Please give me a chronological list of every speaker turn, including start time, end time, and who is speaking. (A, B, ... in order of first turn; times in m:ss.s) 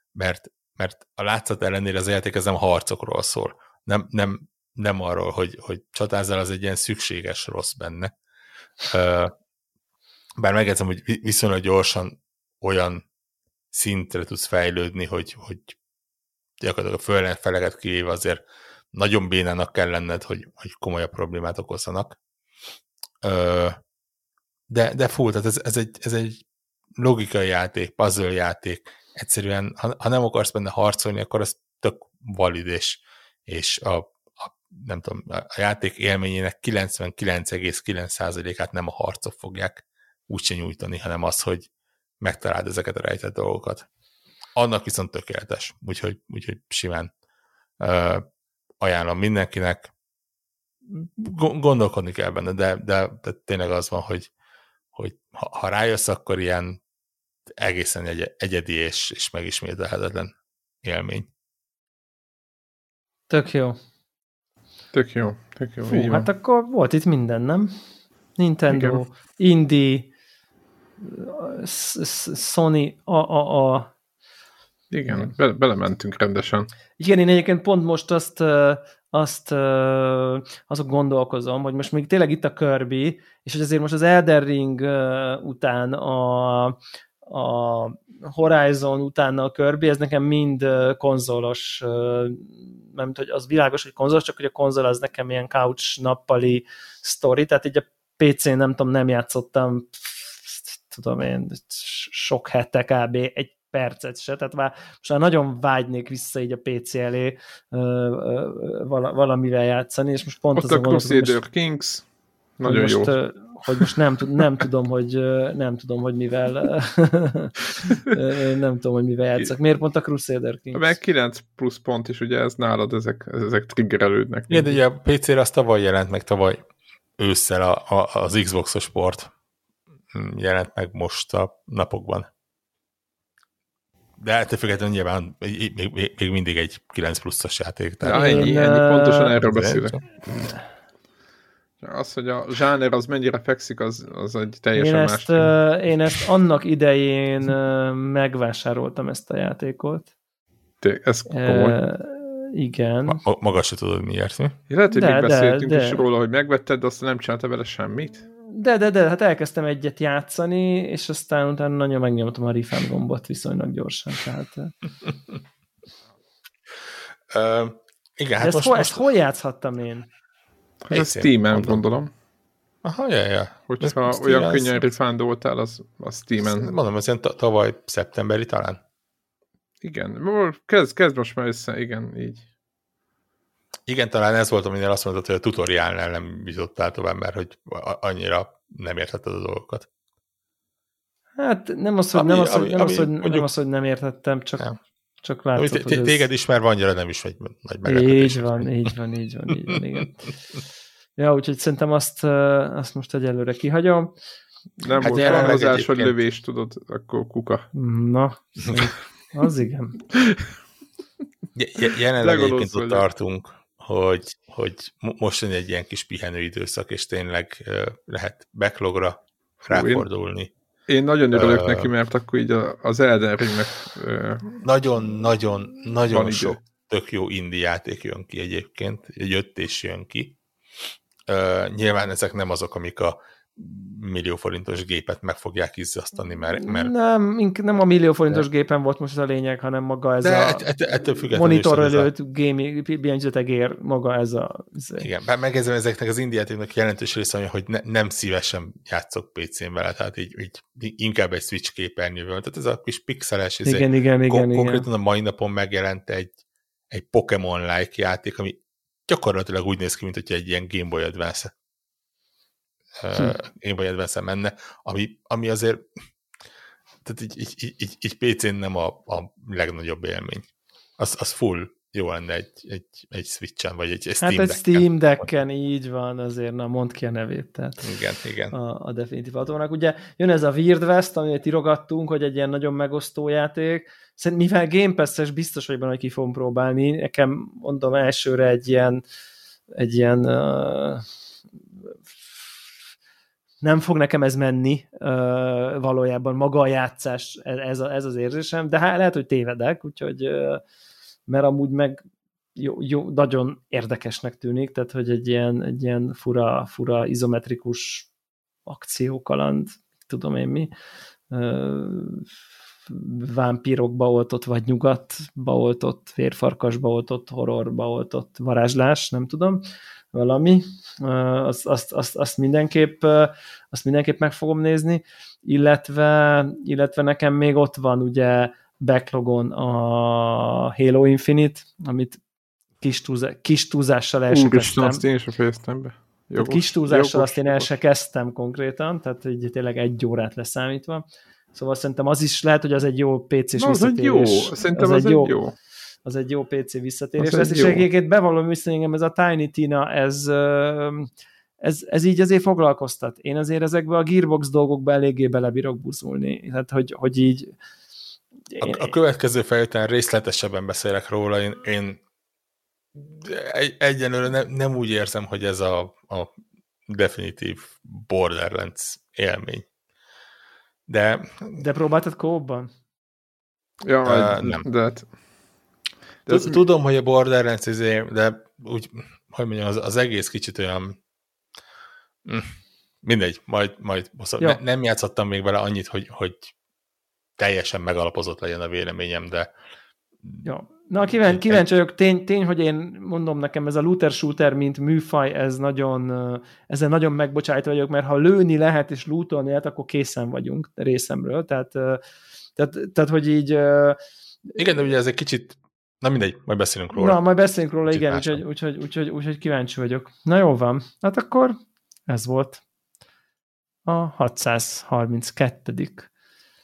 0:00.2-0:08.1 A
0:08.8-0:09.3 A
0:10.4-0:13.0 A
0:13.7-0:15.8 A
0:16.6-0:18.4 A
0:18.9-0:22.2 A
0:23.2-0:23.8 A
0:24.7-0:26.4 A
0:27.0-0:41.7 A
0:42.2-0:43.9 A
0:44.6-0:47.1 A
0:47.8-0:48.2 A
0:48.8-0:49.9 A
0:50.9-0:54.3 A
0:54.9-0:56.8 A
0:57.6-1:01.3 A
1:03.3-1:03.8 B
1:04.9-1:06.3 C
1:05.9-1:07.7 B
1:08.4-1:10.1 B
1:08.7-1:09.0 C
1:11.0-1:13.9 B
1:14.9-1:16.7 C
1:17.0-1:51.4 B
1:50.5-1:52.1 C
1:52.6-1:53.2 C
1:52.6-2:00.9 B
2:00.8-2:04.8 C
2:04.5-2:06.6 A
2:07.2-2:09.3 A
2:10.1-2:12.3 A
2:14.2-2:18.5 A
2:18.0-2:19.3 B
2:18.1-2:20.0 C
2:19.4-2:20.0 A
2:21.8-2:25.6 C
2:24.8-2:30.1 B
2:30.8-2:31.8 C
2:31.3-2:33.2 B
2:33.1-2:34.6 A
2:34.7-2:38.2 C
2:34.9-2:36.0 B
2:38.4-2:44.7 B
2:47.3-2:49.1 A
2:48.4-2:50.1 B
2:50.9-2:52.1 C
2:50.9-2:51.8 A
2:52.8-2:54.8 A
2:53.7-2:56.7 C
2:56.4-2:58.8 A
2:59.8-3:02.4 C
3:03.9-3:09.9 A
3:11.4-3:14.7 B
3:12.1-3:13.5 A
3:15.2-3:16.3 B
3:15.6-3:18.9 A
3:17.8-3:20.3 B
3:21.2-3:24.2 B
3:24.8-3:27.7 C
3:24.8-3:25.6 B
3:25.0-3:26.2 A
3:27.7-3:30.0 B
3:31.6-3:40.5 A
3:32.2-3:33.0 C
3:39.6-3:40.1 C
3:40.9-3:44.6 C
3:41.3-3:41.9 A
3:44.6-3:50.4 A
3:46.1-3:46.6 C
3:51.3-3:56.9 A
3:56.6-4:00.6 B
4:00.2-4:02.1 A
4:01.2-4:05.1 B
4:05.0-4:16.3 A
4:13.6-4:14.9 B
4:16.9-4:21.5 A
4:23.0-4:25.8 A
4:27.0-4:30.5 A
4:31.0-4:34.9 A
4:34.2-4:37.9 B
4:37.8-4:38.6 A
4:38.5-4:49.0 B
4:49.7-4:51.0 B
4:53.6-5:00.6 B
5:01.3-5:02.0 B
5:02.6-5:08.1 B
5:08.7-5:10.7 B
5:11.3-5:12.3 B
5:12.9-5:19.6 B
5:20.1-5:32.2 B
5:32.8-5:35.0 B
5:34.3-5:37.7 C
5:36.4-5:45.3 B
5:43.6-5:45.6 C
5:46.0-5:51.1 B
5:47.2-5:47.9 C
5:51.6-5:57.5 B
5:58.5-5:58.8 B
5:58.6-6:02.0 A
6:03.0-6:06.3 A
6:06.9-6:09.7 A
6:10.9-6:11.6 A
6:11.5-6:12.7 B
6:13.8-6:15.1 C
6:14.0-6:14.6 A
6:16.3-6:16.6 C
6:16.3-6:21.0 A
6:22.2-6:26.5 A
6:27.4-6:29.5 A
6:30.4-6:42.0 B
6:31.2-6:31.6 A
6:42.6-6:44.0 B
6:44.6-6:47.2 A
6:46.9-6:52.6 B
6:47.9-6:48.4 A
6:53.9-6:56.1 B